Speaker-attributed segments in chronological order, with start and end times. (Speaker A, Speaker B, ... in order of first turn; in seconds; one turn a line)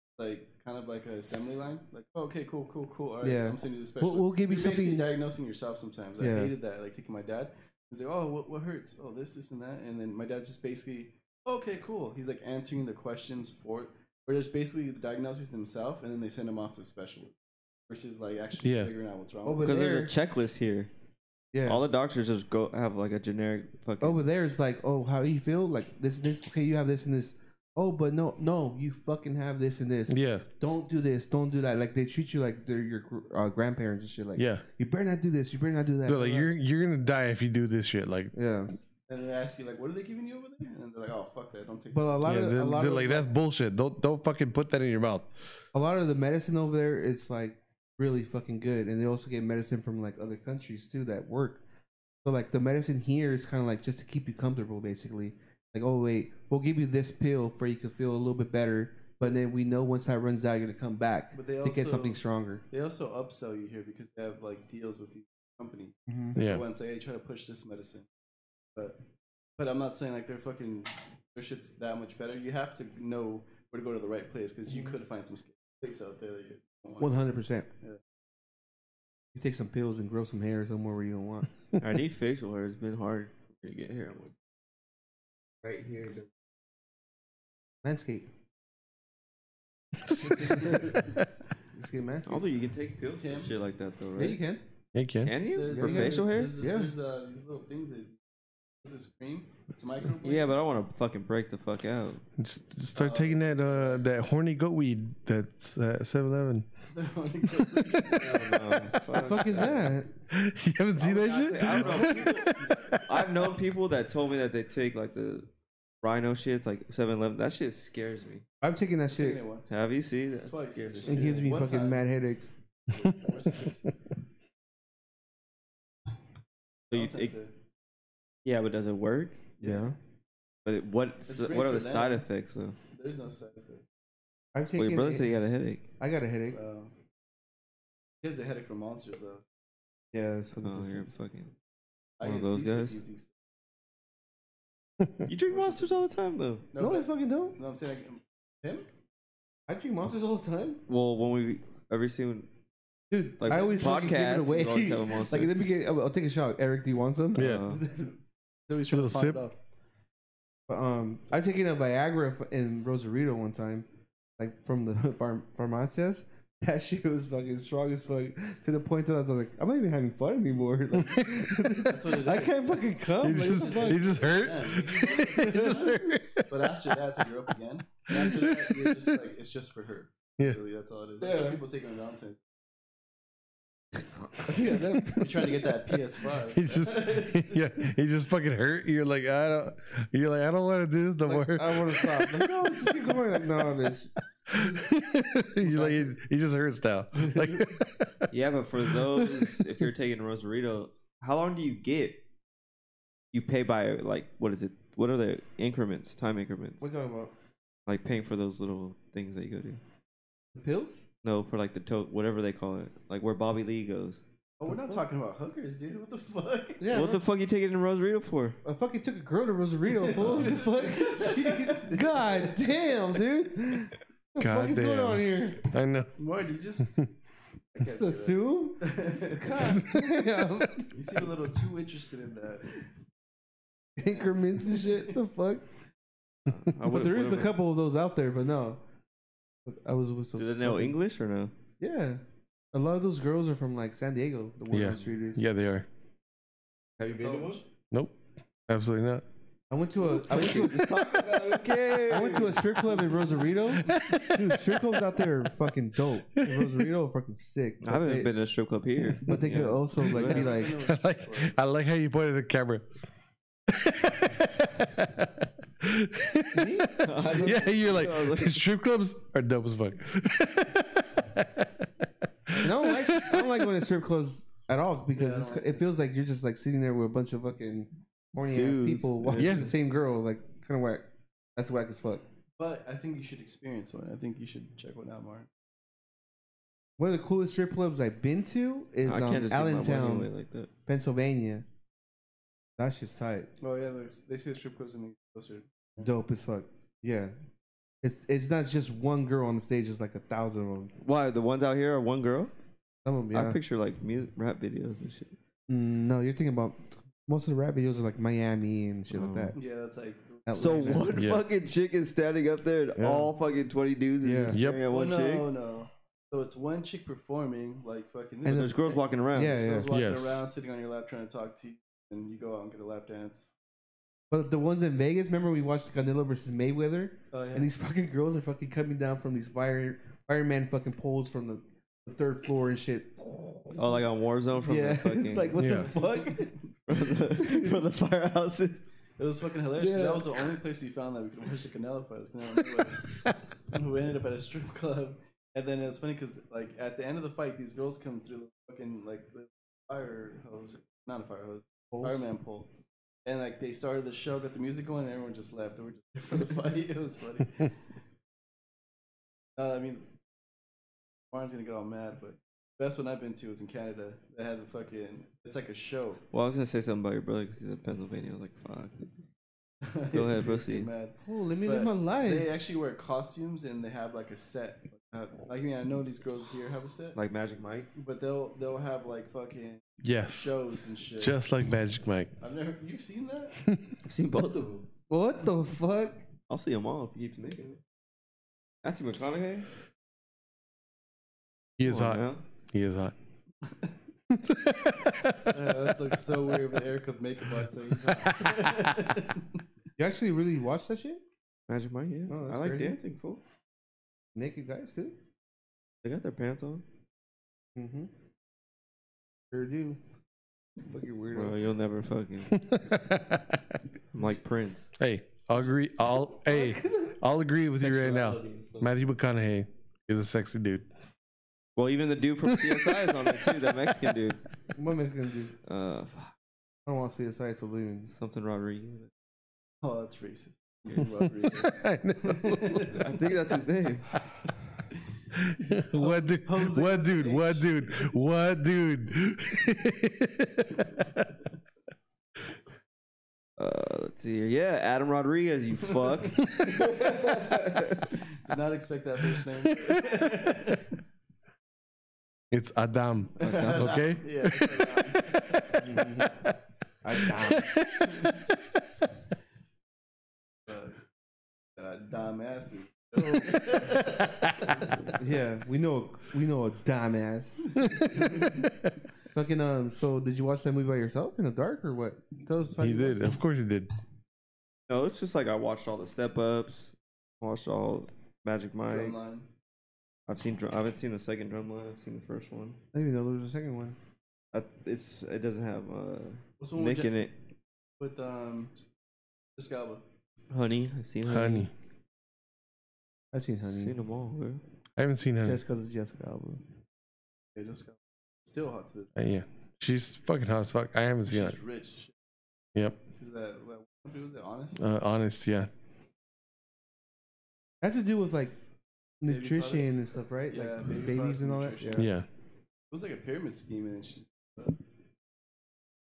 Speaker A: 0.2-17.4
Speaker B: 3.2-5.1
Speaker B: 6.2-6.5
Speaker A: 17.9-19.9
Speaker C: 18.6-18.9
Speaker B: 19.4-20.1
Speaker D: 19.6-20.9
Speaker B: 21.5-21.8
Speaker D: 21.6-24.2
Speaker B: 24.0-36.5
Speaker C: 30.1-30.4
Speaker C: 34.4-34.6
Speaker C: 36.0-38.3
Speaker B: 38.3-38.7
Speaker A: 39.1-42.2
Speaker B: 41.9-43.3
Speaker C: 42.2-45.3
Speaker B: 45.7-51.6
Speaker B: 52.2-62.6
Speaker A: 61.3-62.2
Speaker A: 62.7-68.1
Speaker B: 66.1-66.4
Speaker C: 66.3-66.6
Speaker A: 68.7-69.0
Speaker A: 69.6-77.2
Speaker B: 74.7-74.9
Speaker B: 77.0-77.7
Speaker B: 79.3-81.5
Speaker D: 81.8-84.3
Speaker D: 85.6-86.3
Speaker B: 87.8-88.3
Speaker C: 90.0-91.2
Speaker A: 90.3-90.8
Speaker B: 90.3-91.0
Speaker B: 91.7-92.5
Speaker D: 92.2-94.4
Speaker A: 93.2-93.7
Speaker B: 94.2-94.6
Speaker C: 94.9-95.3
Speaker D: 95.2-96.5
Speaker A: 95.5-98.2
Speaker B: 95.7-96.9
Speaker A: 98.8-100.5
Speaker D: 100.2-102.2
Speaker C: 102.4-106.7
Speaker A: 102.9-104.1
Speaker A: 106.9-108.5
Speaker C: 107.5-109.3
Speaker D: 108.1-110.0
Speaker B: 109.1-110.1
Speaker C: 110.3-113.5
Speaker D: 111.0-115.5
Speaker A: 111.8-113.0
Speaker D: 116.0-118.5
Speaker B: 118.6-119.4
Speaker A: 119.1-119.7
Speaker D: 119.7-121.5
Speaker A: 120.5-122.0
Speaker B: 121.0-122.5
Speaker A: 122.9-123.9
Speaker D: 126.9-127.3
Speaker A: 126.9-127.5
Speaker D: 128.4-129.4
Speaker A: 129.6-129.9
Speaker B: 129.6-129.9
Speaker D: 130.6-132.8
Speaker A: 131.3-132.2
Speaker A: 132.9-133.8
Speaker B: 134.5-135.4
Speaker D: 134.8-135.8
Speaker B: 136.0-136.6
Speaker A: 136.5-136.9
Speaker A: 138.2-139.4
Speaker B: 140.1-141.1
Speaker D: 140.6-141.5
Speaker A: 142.2-143.3
Speaker D: 142.2-143.0
Speaker D: 145.2-146.7
Speaker A: 145.5-146.1
Speaker A: 146.7-148.9
Speaker B: 146.8-147.6
Speaker B: 149.7-150.8
Speaker D: 150.9-152.5
Speaker B: 153.1-158.1
Speaker D: 153.4-155.6
Speaker C: 157.3-157.6
Speaker D: 157.3-157.8
Speaker A: 158.7-159.6
Speaker C: 158.9-159.4
Speaker B: 160.7-174.3
Speaker C: 171.0-171.5
Speaker A: 171.8-182.4
Speaker C: 173.2-176.8
Speaker B: 175.0-176.0
Speaker C: 178.1-179.0
Speaker B: 181.2-181.6
Speaker B: 184.4-185.5
Speaker A: 185.2-187.6
Speaker C: 186.5-193.3
Speaker B: 191.2-194.1
Speaker C: 194.5-198.3
Speaker B: 195.6-196.1
Speaker B: 197.2-197.7
Speaker D: 198.3-202.2
Speaker C: 198.9-199.6
Speaker D: 203.3-206.9
Speaker B: 206.8-207.3
Speaker D: 207.9-209.8
Speaker B: 210.5-211.0
Speaker D: 211.2-214.2
Speaker A: 214.6-217.0
Speaker B: 214.7-215.0
Speaker B: 216.8-217.2
Speaker D: 216.9-218.6
Speaker B: 218.6-225.7
Speaker A: 220.0-222.7
Speaker D: 220.2-220.5
Speaker C: 224.4-226.1
Speaker A: 226.2-227.0
Speaker A: 227.7-229.8
Speaker B: 227.8-231.2
Speaker C: 229.6-230.2
Speaker A: 230.9-232.9
Speaker B: 234.0-235.7
Speaker A: 234.0-235.2
Speaker D: 236.5-237.5
Speaker B: 236.8-238.8
Speaker B: 239.7-241.0
Speaker D: 240.3-241.5
Speaker B: 241.8-242.2
Speaker B: 242.7-245.4
Speaker C: 244.7-245.9
Speaker D: 247.0-247.6
Speaker A: 247.2-247.6
Speaker C: 247.9-248.2
Speaker C: 248.7-249.2
Speaker B: 249.7-251.4
Speaker D: 250.0-252.8
Speaker C: 250.6-250.9
Speaker B: 252.0-258.3
Speaker A: 252.9-253.3
Speaker C: 253.7-255.3
Speaker C: 256.4-256.8
Speaker D: 257.8-260.5
Speaker B: 259.2-260.8
Speaker C: 260.1-262.9
Speaker A: 260.2-261.6
Speaker C: 263.7-271.8
Speaker B: 266.5-267.7
Speaker D: 267.0-268.6
Speaker C: 272.5-273.6
Speaker B: 272.6-282.2
Speaker A: 275.1-275.8
Speaker D: 278.5-279.7
Speaker C: 279.4-279.7
Speaker A: 282.6-285.5
Speaker B: 287.0-290.3
Speaker D: 289.0-290.7
Speaker B: 290.9-291.6
Speaker B: 292.8-293.5
Speaker A: 293.6-296.1
Speaker B: 296.0-297.3
Speaker B: 298.0-300.9
Speaker D: 301.0-302.5
Speaker B: 303.0-303.6
Speaker D: 303.3-305.4
Speaker B: 305.7-309.6
Speaker D: 309.1-309.5
Speaker A: 309.5-311.1
Speaker B: 310.4-311.1
Speaker D: 310.5-315.5
Speaker C: 311.1-311.4
Speaker C: 313.0-313.3
Speaker B: 314.2-314.6
Speaker C: 314.5-314.8
Speaker A: 314.9-323.5
Speaker B: 318.4-318.8
Speaker D: 318.4-319.6
Speaker B: 319.3-319.9
Speaker C: 319.9-320.4
Speaker B: 324.3-334.0
Speaker A: 327.3-327.7
Speaker D: 333.7-335.7
Speaker B: 334.6-336.5
Speaker C: 335.6-335.9
Speaker A: 335.8-336.6
Speaker D: 336.9-338.8
Speaker B: 337.4-337.8
Speaker A: 339.2-343.1
Speaker B: 339.8-340.4
Speaker A: 343.7-352.7
Speaker B: 351.9-352.2
Speaker A: 353.2-357.8
Speaker A: 359.6-360.1
Speaker A: 361.3-366.2
Speaker D: 366.3-369.1
Speaker A: 369.8-377.2
Speaker D: 370.1-370.9
Speaker B: 371.2-372.5
Speaker D: 377.1-377.9
Speaker A: 377.9-381.4
Speaker C: 380.0-380.6
Speaker C: 381.2-382.3
Speaker A: 382.4-383.6
Speaker C: 383.6-383.9
Speaker D: 384.0-384.9
Speaker B: 385.1-386.2
Speaker D: 386.5-387.8
Speaker D: 388.8-389.7
Speaker C: 391.8-393.1
Speaker D: 391.8-392.4
Speaker A: 393.6-393.9
Speaker C: 394.3-396.0
Speaker A: 395.5-399.6
Speaker C: 398.1-398.9
Speaker B: 400.0-401.2
Speaker D: 401.7-403.4
Speaker B: 402.3-402.9
Speaker B: 404.3-405.1
Speaker D: 406.0-406.8
Speaker B: 407.8-408.1
Speaker B: 409.5-410.0
Speaker B: 410.8-411.6
Speaker D: 411.3-412.6
Speaker C: 412.5-413.8
Speaker D: 414.1-414.9
Speaker C: 415.0-420.9
Speaker B: 416.5-416.8
Speaker D: 417.7-418.9
Speaker D: 421.8-424.4
Speaker C: 422.5-424.1
Speaker B: 424.7-425.5
Speaker D: 425.6-426.3
Speaker B: 426.9-428.1
Speaker D: 428.1-429.1
Speaker A: 429.8-433.3
Speaker C: 431.5-432.9
Speaker D: 432.9-434.2
Speaker A: 434.9-435.2
Speaker C: 435.3-441.3
Speaker A: 435.9-438.1
Speaker D: 443.6-448.1
Speaker A: 446.4-447.6
Speaker A: 448.1-451.0
Speaker C: 452.5-456.5
Speaker D: 453.4-454.0
Speaker A: 453.4-455.9
Speaker B: 455.8-456.5
Speaker B: 457.0-457.7
Speaker C: 457.2-458.6
Speaker A: 458.1-458.4
Speaker A: 460.7-461.0
Speaker A: 461.8-465.1
Speaker C: 463.3-464.7
Speaker B: 465.2-467.7
Speaker C: 467.8-468.9
Speaker A: 468.2-468.6
Speaker B: 469.3-473.4
Speaker C: 472.8-473.9
Speaker D: 474.9-479.3
Speaker A: 478.9-479.5
Speaker D: 480.3-482.8
Speaker B: 482.9-484.0
Speaker D: 484.5-487.4
Speaker A: 486.6-487.3
Speaker A: 488.0-488.8
Speaker A: 489.6-490.0
Speaker D: 490.5-491.7
Speaker C: 491.2-491.7
Speaker B: 493.3-494.0
Speaker D: 493.7-494.6
Speaker C: 494.9-495.6
Speaker B: 495.4-496.6
Speaker A: 497.5-499.1
Speaker C: 499.1-501.6
Speaker A: 501.2-502.1
Speaker A: 503.1-504.8
Speaker C: 504.8-505.7
Speaker B: 507.8-508.6
Speaker B: 509.2-512.1
Speaker A: 509.2-512.1
Speaker C: 512.0-512.2
Speaker A: 512.9-514.8